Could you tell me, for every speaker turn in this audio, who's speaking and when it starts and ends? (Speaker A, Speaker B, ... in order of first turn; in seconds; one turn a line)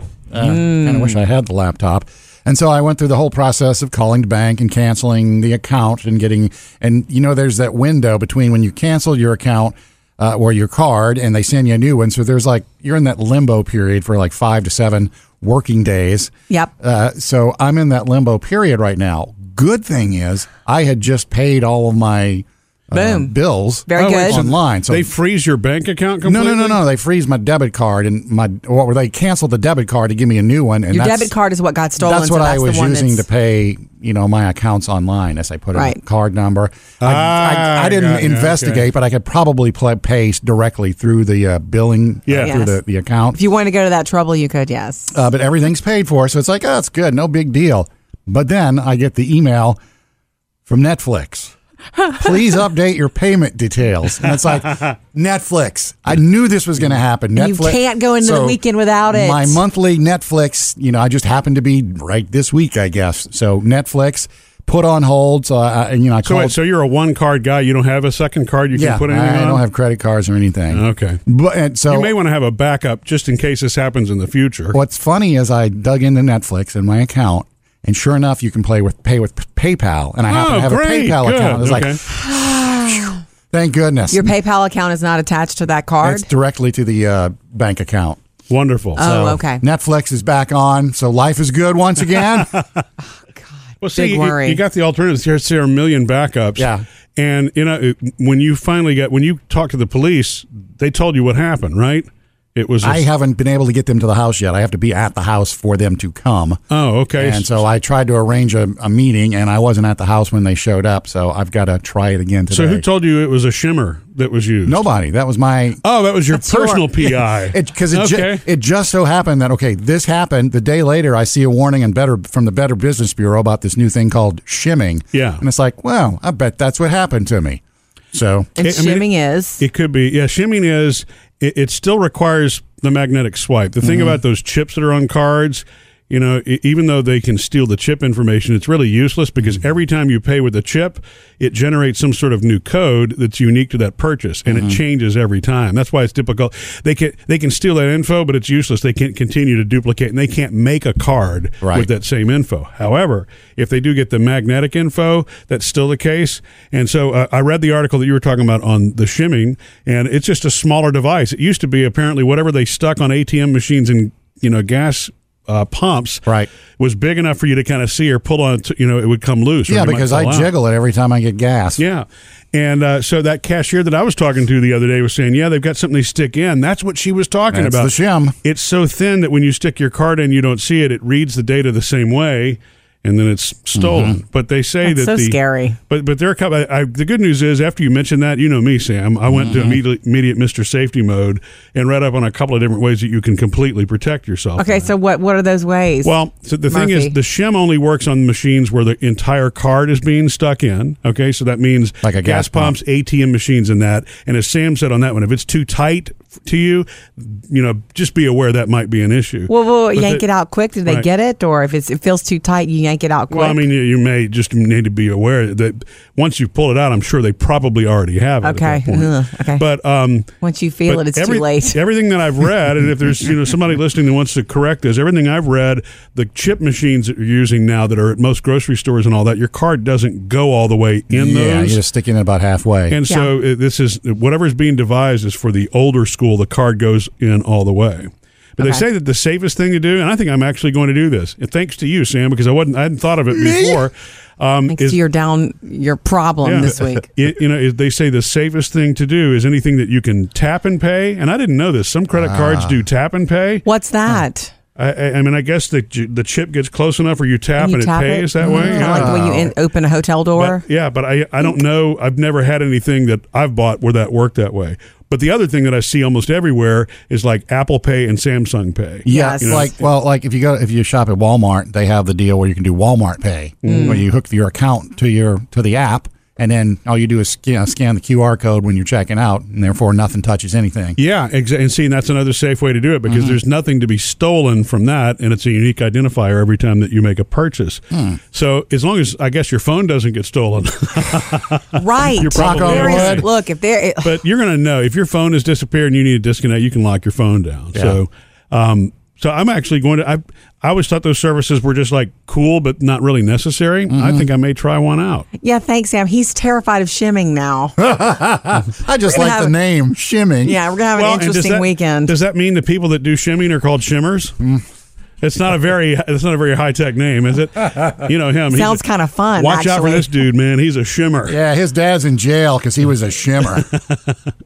Speaker A: 0.3-25.1
Speaker B: 0.4-1.2
Speaker B: 22.9-23.3
Speaker B: 23.9-24.4
Speaker C: 23.9-26.8
Speaker A: 26.2-31.3
Speaker B: 30.9-33.2
Speaker A: 32.0-43.4
Speaker C: 37.0-38.9
Speaker C: 42.3-42.5
Speaker B: 42.4-42.8
Speaker B: 43.3-45.2
Speaker A: 45.1-49.8
Speaker A: 50.7-51.5
Speaker A: 52.1-66.5
Speaker B: 57.4-59.6
Speaker C: 66.2-69.6
Speaker A: 68.7-72.1
Speaker C: 70.7-71.2
Speaker C: 71.9-74.8
Speaker A: 74.7-82.1
Speaker C: 80.2-82.0
Speaker B: 82.1-83.2
Speaker A: 83.5-84.3
Speaker B: 84.1-86.3
Speaker A: 86.0-88.2
Speaker C: 88.5-89.0
Speaker B: 89.0-89.6
Speaker A: 89.0-92.6
Speaker B: 93.7-94.6
Speaker C: 93.8-103.0
Speaker A: 96.6-96.8
Speaker A: 102.8-106.6
Speaker C: 106.7-107.6
Speaker A: 107.2-112.8
Speaker C: 112.5-114.8
Speaker A: 114.7-127.6
Speaker C: 115.8-118.4
Speaker C: 125.1-125.4
Speaker A: 128.1-128.5
Speaker B: 128.6-129.6
Speaker C: 128.6-170.5
Speaker A: 133.8-134.2
Speaker A: 144.5-144.8
Speaker A: 151.6-151.9
Speaker A: 169.7-171.8
Speaker C: 171.8-185.4
Speaker A: 177.5-178.3
Speaker A: 183.7-184.2
Speaker B: 184.8-185.8
Speaker C: 185.9-194.9
Speaker A: 189.3-189.8
Speaker B: 194.6-196.2
Speaker C: 196.0-210.2
Speaker B: 196.7-197.2
Speaker A: 202.0-202.8
Speaker B: 209.5-213.6
Speaker C: 213.3-220.3
Speaker B: 218.4-219.6
Speaker B: 220.4-221.8
Speaker C: 220.9-231.8
Speaker A: 231.1-233.0
Speaker C: 232.9-245.0
Speaker B: 238.6-238.8
Speaker A: 243.3-243.8
Speaker B: 244.7-247.1
Speaker C: 246.4-253.7
Speaker A: 252.1-252.8
Speaker B: 253.6-254.5
Speaker C: 254.8-259.2
Speaker B: 257.6-260.6
Speaker A: 258.4-259.5
Speaker C: 260.4-269.8
Speaker A: 269.0-281.0
Speaker B: 269.1-269.6
Speaker C: 273.6-274.0
Speaker B: 273.7-274.0
Speaker C: 281.0-293.3
Speaker A: 283.1-283.4
Speaker A: 287.9-288.2
Speaker B: 291.7-294.2
Speaker A: 292.3-293.2
Speaker C: 294.0-305.3
Speaker A: 303.9-304.2
Speaker B: 305.4-307.7
Speaker A: 307.8-310.6
Speaker B: 309.1-309.5
Speaker B: 310.4-312.1
Speaker C: 310.9-314.3
Speaker C: 315.2-318.8
Speaker B: 318.5-320.1
Speaker C: 319.4-321.4
Speaker A: 321.3-323.7